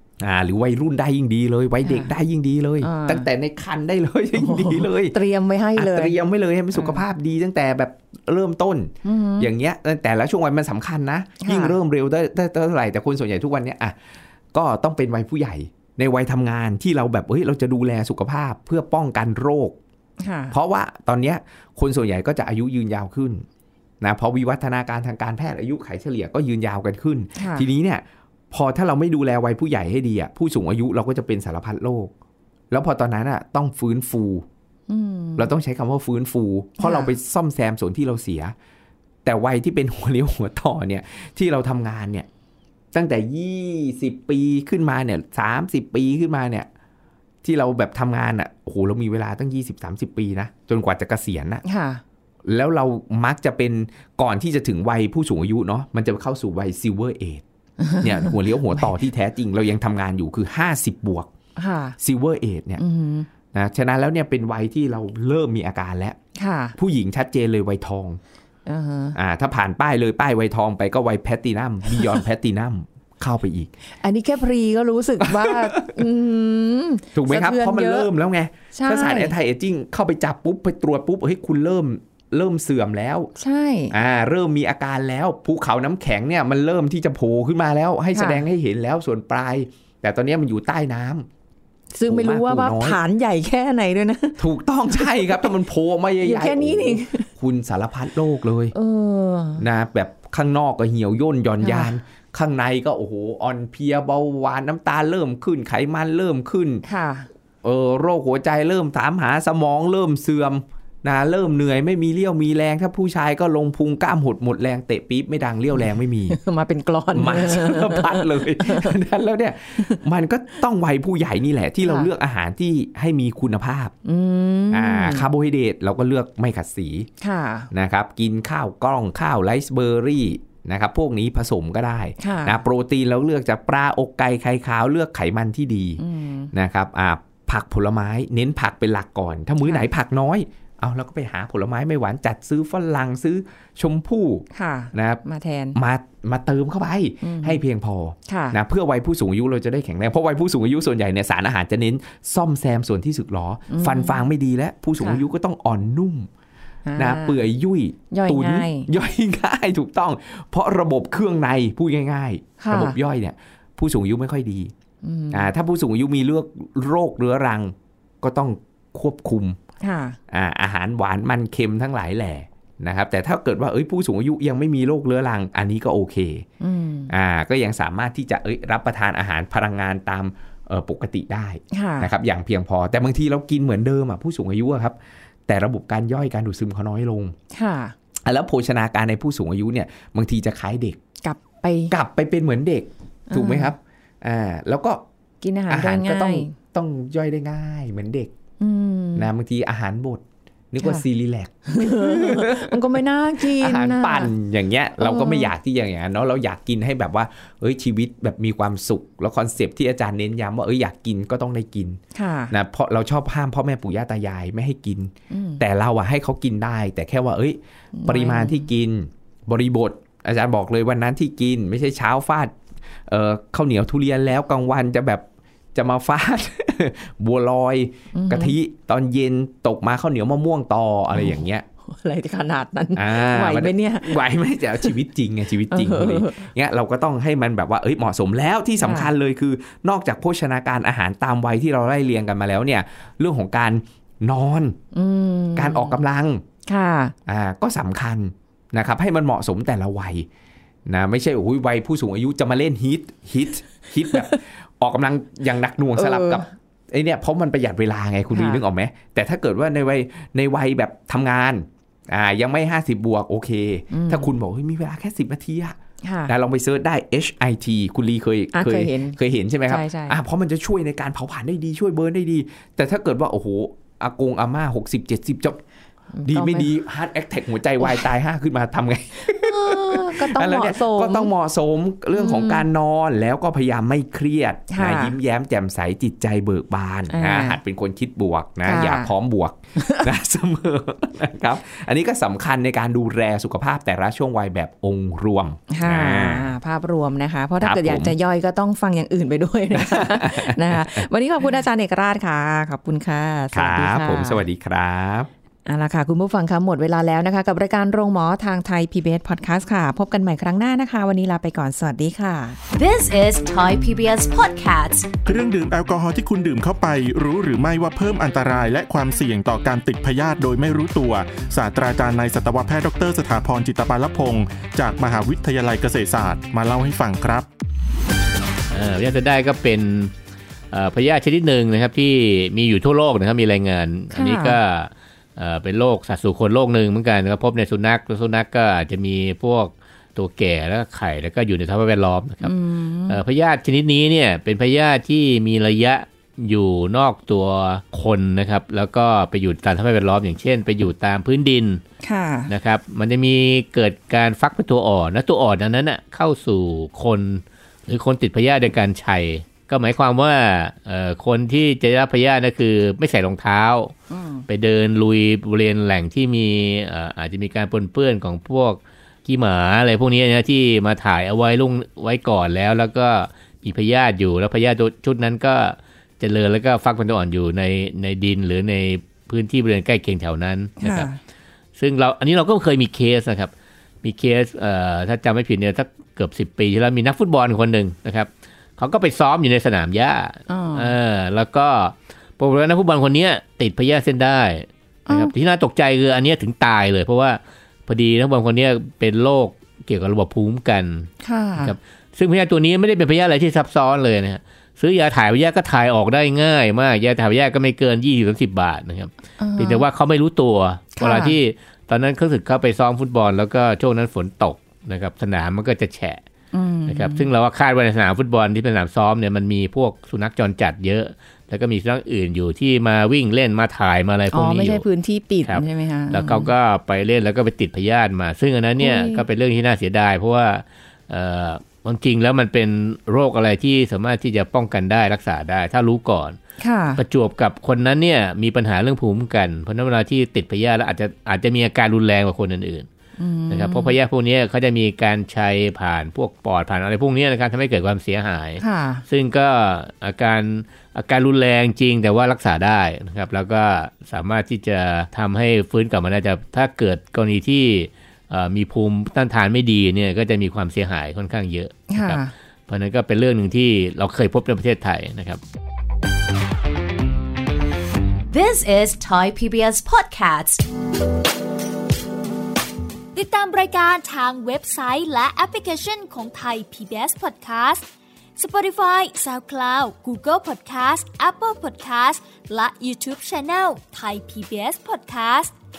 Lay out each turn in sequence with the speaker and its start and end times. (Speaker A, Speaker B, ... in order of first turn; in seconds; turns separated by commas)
Speaker A: 0.2-5.2, Speaker B: 1.8-2.1, Speaker B: 2.8-3.3, Speaker B: 4.3-6.2, Speaker A: 5.7-13.9, Speaker B: 6.7-7.0, Speaker B: 9.0-9.5, Speaker B: 11.4-11.8, Speaker A: 14.5-19.8, Speaker B: 20.2-20.5, Speaker A: 20.5-23.4, Speaker A: 24.0-32.1, Speaker B: 27.4-27.6, Speaker A: 32.7-34.5, Speaker B: 34.9-35.5, Speaker A: 35.4-38.5, Speaker B: 36.8-37.1, Speaker A: 39.2-42.3, Speaker A: 42.9-46.7, Speaker A: 47.4-51.6, Speaker B: 51.6-52.0, Speaker A: 52.5-57.4, Speaker B: 57.8-58.9, Speaker A: 58.0-61.3, Speaker B: 61.6-62.0, Speaker A: 62.0-62.8, Speaker B: 62.8-63.3, Speaker A: 63.5-66.2, Speaker B: 66.3-66.8, Speaker A: 66.8-68.2, Speaker B: 68.7-69.2, Speaker A: 69.1-73.7, Speaker B: 74.0-78.1, Speaker A: 75.2-76.0, Speaker A: 77.1-83.3, Speaker B: 78.7-79.3, Speaker B: 83.4-83.9, Speaker A: 83.9-91.3, Speaker B: 88.1-88.4, Speaker B: 91.9-95.5, Speaker A: 92.0-93.0, Speaker A: 94.4-98.7, Speaker B: 96.2-97.3, Speaker B: 98.7-99.6, Speaker A: 99.6-106.8, Speaker B: 101.6-101.9, Speaker B: 106.8-107.3, Speaker A: 107.6-116.4, Speaker B: 116.3-119.0, Speaker A: 117.1-123.9, Speaker B: 121.8-122.1, Speaker B: 124.0-125.3, Speaker A: 124.7-127.1, Speaker B: 127.2-127.7, Speaker A: 127.7-145.2, Speaker B: 132.2-132.6, Speaker B: 136.0-136.5, Speaker B: 144.5-145.8, Speaker A: 145.7-156.3, Speaker B: 147.2-147.6, Speaker B: 148.3-148.6, Speaker B: 153.7-154.2, Speaker B: 156.8-157.4, Speaker A: 156.9-164.7, Speaker B: 158.1-158.9, Speaker B: 162.6-163.0, Speaker B: 165.0-165.5, Speaker A: 165.3-169.6, Speaker B: 169.8-170.2, Speaker A: 170.3-176.4, Speaker B: 176.6-177.1, Speaker A: 177.1-184.9, Speaker B: 181.7-182.1, Speaker A: 185.5-187.3, Speaker B: 187.5-187.9, Speaker A: 188.2-191.0, Speaker B: 191.2-191.9, Speaker A: 191.9-195.0, Speaker B: 193.3-193.7, Speaker B: 195.4-196.5, Speaker A: 195.7-198.3, Speaker B: 198.6-199.3, Speaker A: 199.2-202.8, Speaker B: 201.7-204.3, Speaker A: 203.4-212.0, Speaker B: 205.0-205.5, Speaker B: 212.1-212.5, Speaker A: 212.5-222.5, Speaker B: 215.3-215.6, Speaker B: 217.9-218.6, Speaker A: 223.1-231.7, Speaker B: 228.1-228.6, Speaker B: 231.1-234.2, Speaker A: 232.9-244.8, Speaker B: 235.7-236.5, Speaker B: 238.8-239.1, Speaker B: 244.9-246.0, Speaker A: 245.6-246.4, Speaker B: 246.7-247.1, Speaker A: 247.2-250.3, Speaker A: 250.8-275.6, Speaker B: 255.9-256.4, Speaker B: 258.3-258.6, Speaker B: 263.9-264.3, Speaker B: 266.0-266.3, Speaker B: 268.5-270.2, Speaker B: 276.1-276.7, Speaker A: 276.2-296.6, Speaker B: 279.2-281.3, Speaker B: 282.1-282.6, Speaker B: 284.7-285.1, Speaker B: 287.1-287.6, Speaker B: 288.6-289.1, Speaker B: 289.8-290.1, Speaker B: 295.7-304.4, Speaker A: 297.6-298.1, Speaker A: 299.7-301.1, Speaker A: 303.5-305.3, Speaker B: 305.6-312.6, Speaker C: 312.7-315.1, Speaker D: 315.2-327.5, Speaker E: 328.7-330.1, Speaker E: 330.7-342.5, Speaker B: 334.1-334.6, Speaker B: 342.4-343.2, Speaker E: 343.1-351.8, Speaker B: 352.0-352.5, Speaker E: 352.5-363.9, Speaker B: 364.1-364.4, Speaker E: 364.5-381.1, Speaker B: 380.8-381.2, Speaker E: 381.8-383.5, Speaker E: 384.0-416.2, Speaker B: 390.5-390.9, Speaker B: 395.1-395.3, Speaker B: 401.2-401.7, Speaker B: 409.4-409.8, Speaker B: 411.0-411.4, Speaker B: 416.5-417.3, Speaker E: 416.9-424.8, Speaker B: 424.3-426.5, Speaker E: 425.4-436.4, Speaker B: 428.8-429.2, Speaker B: 436.6-437.0, Speaker E: 437.0-442.9, Speaker B: 443.2-443.9, Speaker E: 443.5-465.4, Speaker B: 448.6-449.0, Speaker B: 461.9-462.3, Speaker C: 468.3-470.6, Speaker F: 473.1-477.9, Speaker F: 478.4-485.5